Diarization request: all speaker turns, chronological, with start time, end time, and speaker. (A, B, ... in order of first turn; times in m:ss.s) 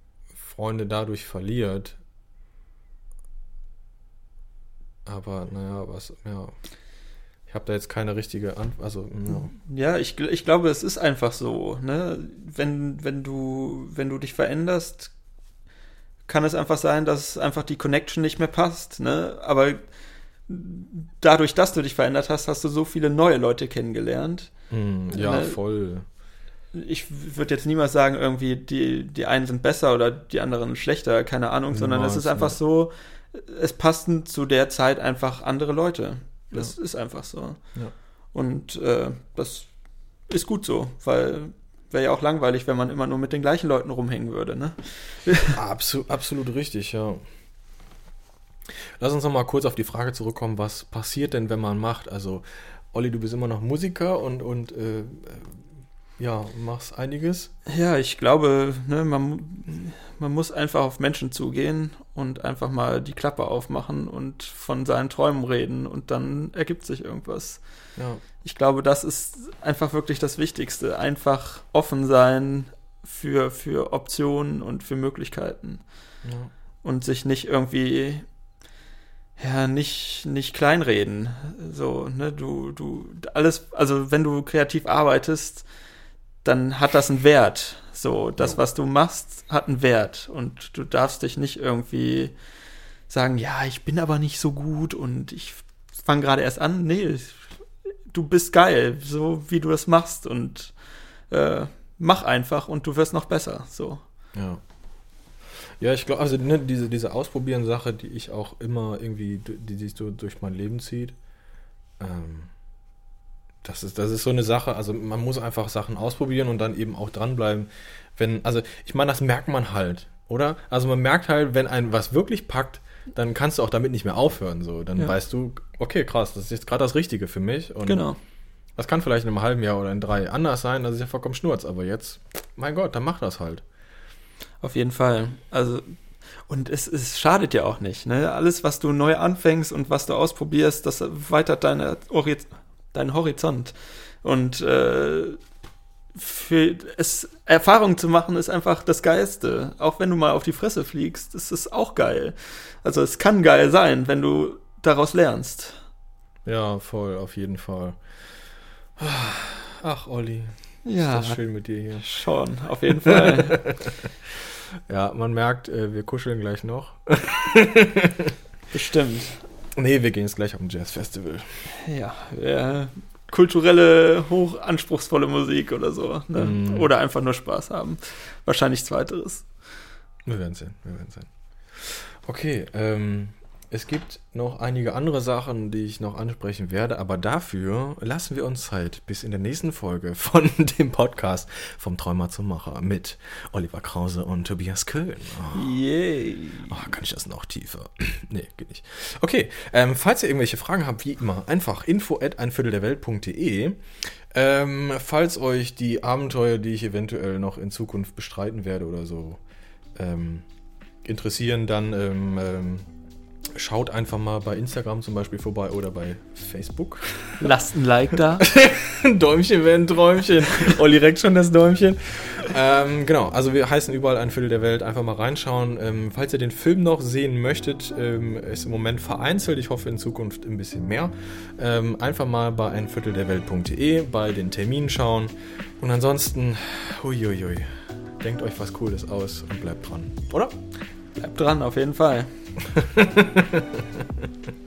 0:00.4-0:02.0 A
0:05.0-0:06.5 A
0:07.5-0:09.5 A
0:09.3-0:15.1 B
0:16.3-0:19.8 B
0:20.5-0:24.5 B
0:24.7-0:26.0 A
0:25.1-0:25.6 B
0:26.7-0:37.6 B
0:31.7-0:32.6 A
0:38.3-0:39.7 B
0:40.3-0:45.6 B
0:45.5-0:47.2 A
0:49.0-0:55.6 A
0:56.2-0:57.5 A
0:57.7-1:07.6 B
1:08.4-1:15.8 B
1:16.2-1:16.5 A
1:16.8-1:18.2 B
1:19.4-1:25.6 B
1:26.4-1:32.3 B
1:33.1-1:37.4 B
1:38.1-1:40.7 B
1:41.3-1:44.0 B
1:44.3-1:44.6 A
1:45.8-1:51.1 A
1:52.0-1:52.5 A
1:53.6-2:08.0 A
2:07.8-2:08.2 B
2:08.8-2:13.6 A
2:14.6-2:15.9 B
2:16.5-2:25.4 B
2:26.1-2:35.8 B
2:36.4-2:38.0 A
2:39.0-2:42.0 A
2:40.8-2:41.4 B
2:42.0-2:43.6 B
2:42.9-2:44.1 A
2:44.9-2:48.3 A
2:48.7-2:49.4 B
2:49.8-2:51.5 A
2:51.7-2:59.4 B
2:56.4-2:56.9 A
3:00.2-3:15.7 A
3:15.5-3:16.7 B
3:16.7-3:29.4 A
3:30.0-3:30.4 A
3:31.0-3:32.9 A
3:33.6-3:37.5 A
3:37.4-3:38.5 B
3:38.4-4:00.5 A
4:01.2-4:02.3 B
4:02.6-4:04.3 A